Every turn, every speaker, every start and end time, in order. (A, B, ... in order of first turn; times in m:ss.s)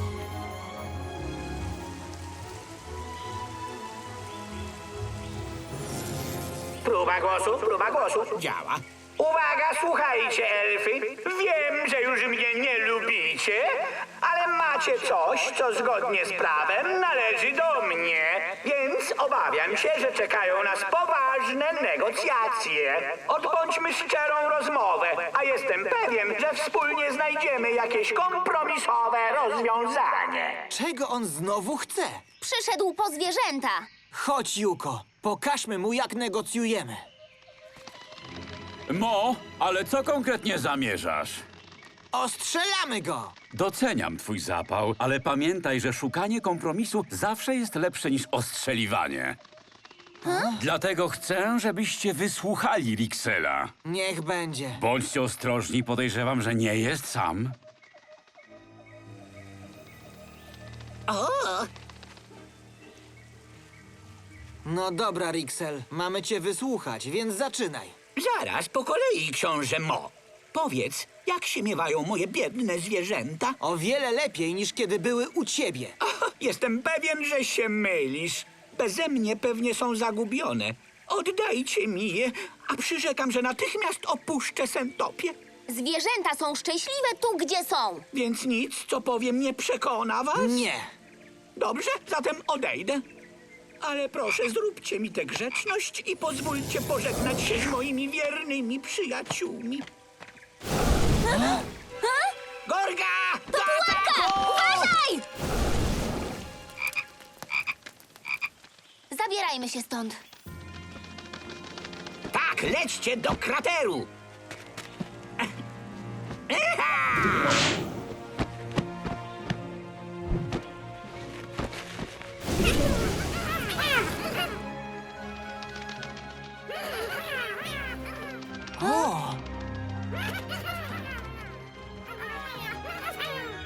0:06.8-0:30.7 A
0:30.7-0:32.2 B
0:32.4-0:33.9 C
0:34.1-0:37.0 B
0:38.9-0:41.4 D
0:42.1-0:43.3 B
0:43.5-0:49.4 D
0:50.2-0:50.7 B
0:50.6-0:53.7 D
0:53.8-0:54.8 B
0:54.8-0:57.6 D
1:04.6-1:08.0 B
1:08.2-1:13.6 A
1:13.6-1:15.9 B
1:16.1-1:25.4 A
1:25.7-1:28.0 C
1:28.1-1:30.6 A
1:30.4-1:30.9 B
1:31.6-1:33.0 A
1:33.8-1:39.9 A
1:42.7-1:44.9 A
1:43.5-1:45.2 C
1:49.1-1:50.2 C
1:52.3-1:54.1 A
1:56.5-1:57.6 A
2:08.8-2:09.4 B